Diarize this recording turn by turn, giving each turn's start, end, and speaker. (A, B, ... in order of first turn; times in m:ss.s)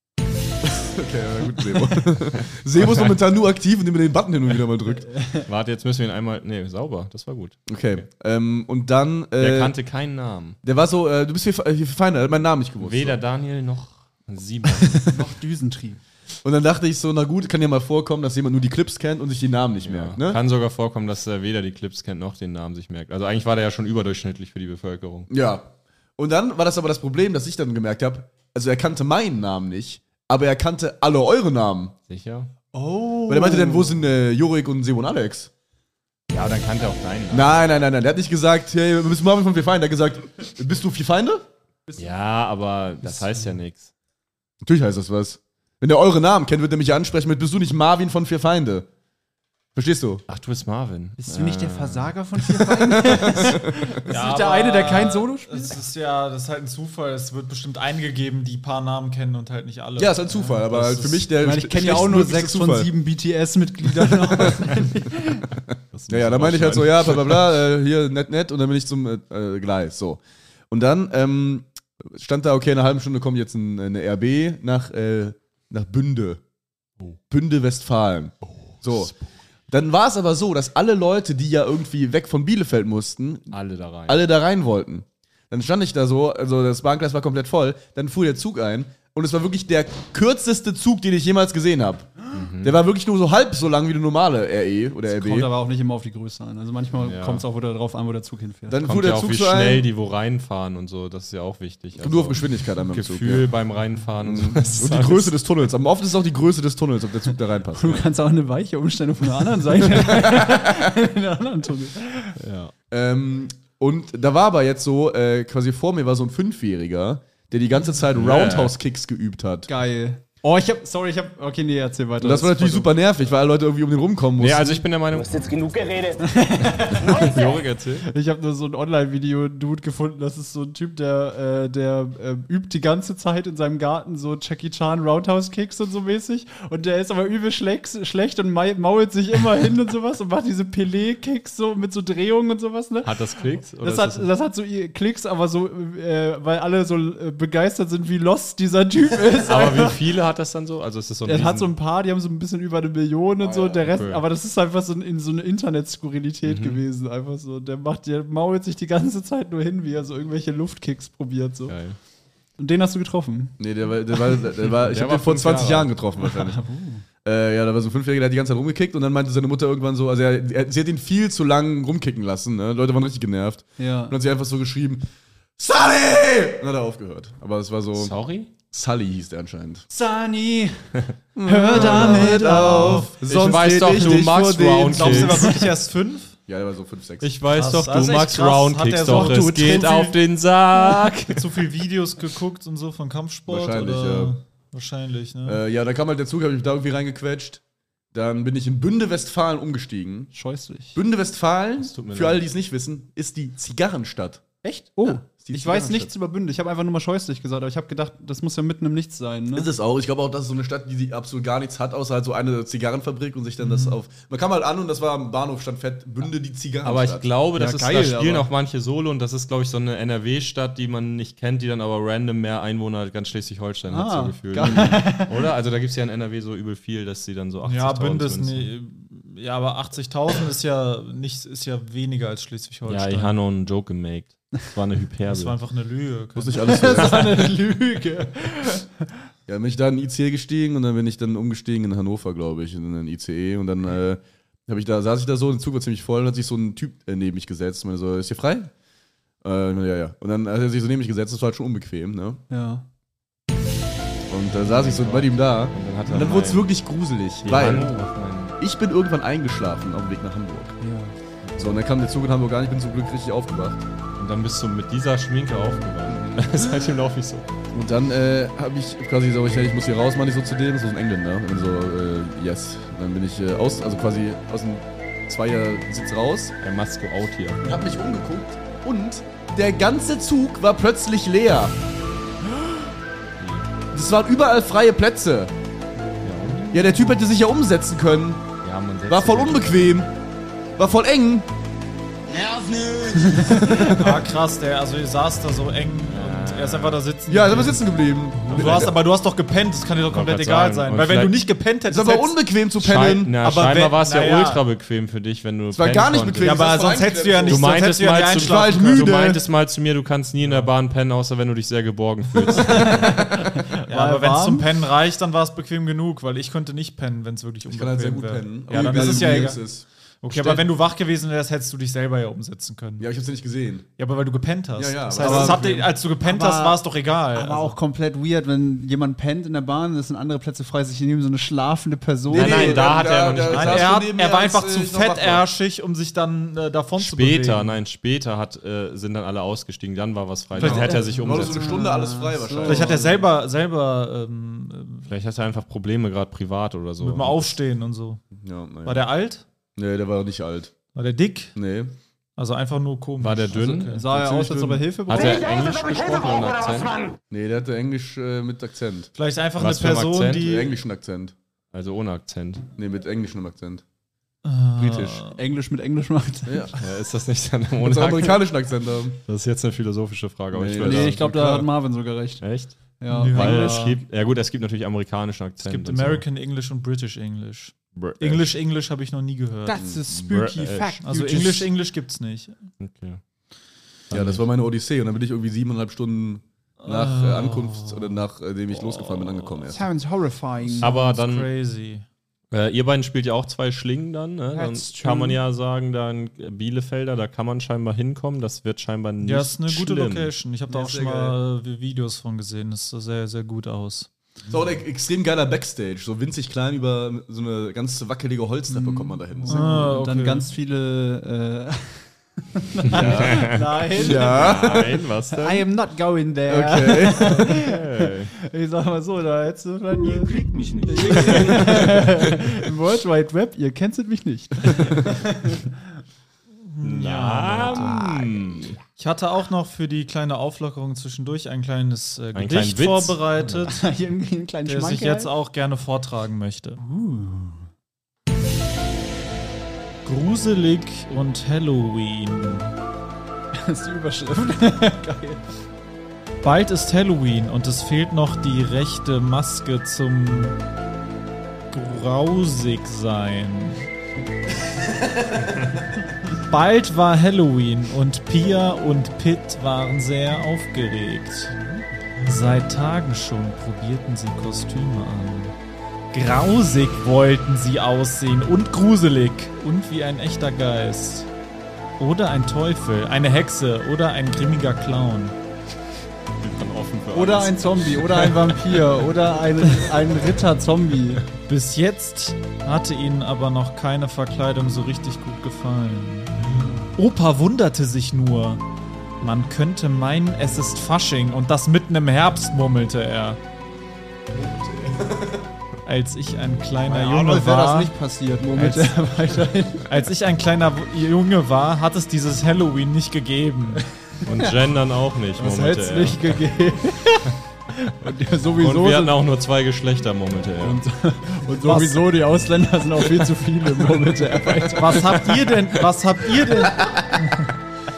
0:00.6-0:05.1 A
0:02.8-0:03.2 B
0:05.0-0:05.5 C
0:05.5-0:08.0 B
0:07.7-0:09.8 A
0:09.4-0:10.6 B
0:10.6-0:13.2 A
0:12.8-0:15.2 B
0:15.1-0:16.0 C
0:16.4-0:20.4 A
0:19.8-0:25.3 B
0:25.3-0:32.0 A
0:32.1-0:32.5 B
0:32.7-0:34.0 C
0:33.3-0:35.5 A
0:36.3-0:37.5 B
0:37.3-0:41.5 A
0:41.9-0:42.1 C
0:42.0-0:43.9 B
0:43.0-0:43.5 C
0:44.6-0:48.9 A
0:49.8-0:50.2 A
0:50.3-0:52.9 B
0:51.2-0:55.8 C
0:53.0-0:53.8 A
0:54.1-1:00.2 D
1:00.0-1:02.9 A
1:00.7-1:01.1 B
1:01.4-1:05.5 C
1:04.1-1:04.7 A
1:05.7-1:16.4 A
1:05.9-1:07.5 B
1:17.3-1:19.1 A
1:19.7-1:23.6 A
1:23.5-1:24.2 B
1:24.1-1:35.5 A
1:32.3-1:32.8 B
1:35.1-1:38.8 C
1:37.0-1:37.4 B
1:38.7-1:39.9 A
1:38.8-1:45.4 B
1:42.0-1:43.5 A
1:44.2-1:48.0 A
1:47.7-1:52.4 C
1:49.8-1:50.7 A
1:52.4-1:52.7 B
1:52.9-1:59.7 A
1:58.2-1:58.7 B
1:59.7-2:03.0 C
2:02.2-2:04.9 A
2:04.4-2:05.5 B
2:05.2-2:06.2 E
2:06.2-2:07.3 C
2:06.8-2:08.1 B
2:07.0-2:07.7 E
2:08.0-2:23.1 C
2:23.0-2:24.3 B
2:23.8-2:30.0 C
2:29.4-2:31.7 B
2:31.3-2:41.8 C
2:33.4-2:33.8 A
2:33.9-2:34.2 B
2:36.4-2:36.8 B
2:41.7-2:42.0 B
2:42.6-2:43.6 C
2:43.6-2:46.6 A
2:44.6-2:45.9 B
2:46.2-2:47.0 C
2:47.2-2:58.1 A
2:53.8-2:54.2 C
2:58.0-2:58.5 B
2:58.7-2:59.8 A
2:59.9-3:03.1 C
3:01.4-3:05.4 A
3:01.7-3:05.5 B
3:02.2-3:03.1 D
3:04.9-3:06.4 D
3:05.4-3:05.7 C
3:06.5-3:07.3 A
3:07.2-3:11.4 B
3:07.5-3:09.8 D
3:09.1-3:10.2 C
3:10.8-3:11.1 C
3:11.2-3:15.6 D
3:13.5-3:14.4 A
3:15.4-3:17.6 A
3:18.1-3:20.3 A
3:20.3-3:21.0 C
3:21.0-3:24.4 A
3:21.8-3:22.4 B
3:24.6-3:29.7 C
3:25.0-3:26.1 A
3:29.5-3:37.3 A
3:33.6-3:34.0 D
3:36.8-3:48.7 B
3:37.6-3:38.5 C
3:43.9-3:45.3 C
3:47.6-3:53.4 D
3:52.9-3:55.6 B
3:55.3-3:56.7 D
3:56.4-3:57.4 A
3:56.6-3:59.0 C
3:59.5-4:08.7 A
4:09.4-4:12.4 A
4:12.5-4:12.9 C
4:14.3-4:18.0 A
4:14.5-4:16.7 B
4:17.4-4:18.6 B
4:18.6-4:20.8 A
4:20.8-4:21.2 C
4:21.4-4:21.8 B
4:21.6-4:23.8 A
4:24.2-4:27.5 B
4:26.1-4:26.4 A
4:27.7-4:36.6 A
4:36.6-4:37.6 B
4:37.6-4:41.8 A
4:43.4-4:43.7 B
4:43.9-4:45.5 A
4:46.2-4:46.9 B
4:46.7-4:48.5 A
4:48.6-4:49.9 B
4:49.1-4:50.1 A
4:50.8-4:51.5 A
4:53.0-4:53.8 C
4:53.7-4:54.1 A
4:53.7-4:57.8 D
4:56.1-4:57.0 B
4:57.3-4:59.0 A
4:58.5-4:58.9 B
4:58.5-5:02.4 D
5:00.1-5:01.4 B
5:01.9-5:03.9 A
5:02.8-5:06.7 B
5:03.8-5:04.6 D
5:05.7-5:09.4 A
5:06.4-5:09.1 D
5:07.5-5:13.2 B
5:12.6-5:14.7 C
5:13.9-5:19.6 D
5:17.7-5:20.7 A
5:18.7-5:19.6 C
5:20.2-5:23.1 D
5:23.0-5:23.9 A
5:24.0-5:27.8 D
5:24.8-5:25.9 A
5:25.2-5:32.8 C
5:32.3-5:35.4 A
5:32.3-5:33.9 B
5:33.5-5:37.7 D
5:37.0-5:41.7 B
5:40.6-5:40.9 D
5:40.6-5:43.2 A
5:40.6-5:43.2 C
5:42.6-5:45.1 D
5:45.1-5:47.6 B
5:47.0-5:48.2 D
5:48.3-5:49.1 A
5:48.8-5:49.4 D
5:49.8-5:50.7 A
5:50.9-5:51.5 D
5:51.6-5:51.9 A
5:52.4-5:54.1 D
5:53.2-5:54.0 B
5:53.9-5:55.5 C
5:54.1-5:54.9 A
5:55.1-5:56.9 B
5:55.1-5:57.2 E
5:57.3-5:59.1 A
5:59.2-6:00.7 D
5:59.6-6:00.6 B
6:00.4-6:01.4 A
6:01.7-6:02.7 B
6:02.8-6:03.8 A
6:04.4-6:05.4 D
6:04.8-6:05.2 A
6:05.3-6:06.7 C
6:06.5-6:06.8 A
6:06.8-6:08.4 B
6:07.8-6:09.2 A
6:09.3-6:11.6 B
6:10.5-6:11.6 A
6:10.8-6:12.5 C
6:12.4-6:16.2 B
6:13.0-6:13.9 C
6:13.1-6:14.0 D
6:15.6-6:19.8 D
6:18.0-6:18.5 B
6:19.6-6:21.7 C
6:19.8-6:20.0 A
6:20.1-6:21.0 B
6:21.0-6:22.6 D
6:22.8-6:23.2 B
6:24.1-6:24.4 B
6:24.1-6:29.8 A
6:26.8-6:28.2 D
6:28.8-6:29.7 D
6:29.7-6:30.9 C
6:30.7-6:32.0 D
6:30.8-6:31.5 B
6:32.5-6:40.3 B
6:34.5-6:35.4 C
6:39.2-6:44.1 D
6:40.7-6:41.4 A
6:44.5-6:49.9 A
6:48.7-7:05.8 C
6:49.5-6:50.5 D
6:52.9-6:55.7 B
6:52.9-6:54.9 A
6:56.5-6:57.4 A
6:57.4-6:58.3 B
7:00.6-7:02.4 B
7:06.6-7:08.3 D
7:06.8-7:08.8 B
7:09.0-7:13.8 D
7:12.4-7:13.7 B
7:13.6-7:15.3 C
7:14.6-7:16.8 D
7:16.8-7:17.7 C
7:20.0-7:22.7 D
7:23.6-7:25.4 C
7:26.4-7:30.6 D
7:31.7-7:33.9 D
7:36.3-7:41.5 D
7:42.2-7:45.6 D
7:46.1-7:51.3 D
7:52.0-7:55.4 D
7:56.4-7:58.8 B
7:57.1-8:01.2 C
8:01.5-8:08.6 D
8:06.5-8:06.8 B
8:06.5-8:06.8 C
8:09.2-8:13.4 D
8:14.3-8:15.4 A
8:15.8-8:18.0 D
8:16.8-8:19.9 C
8:18.5-8:18.9 B
8:19.9-8:23.8 D
8:24.2-8:26.5 B
8:24.2-8:24.5 C
8:25.4-8:29.2 C
8:28.6-8:30.8 B
8:30.6-8:35.3 C
8:31.6-8:32.0 D
8:34.7-8:37.5 D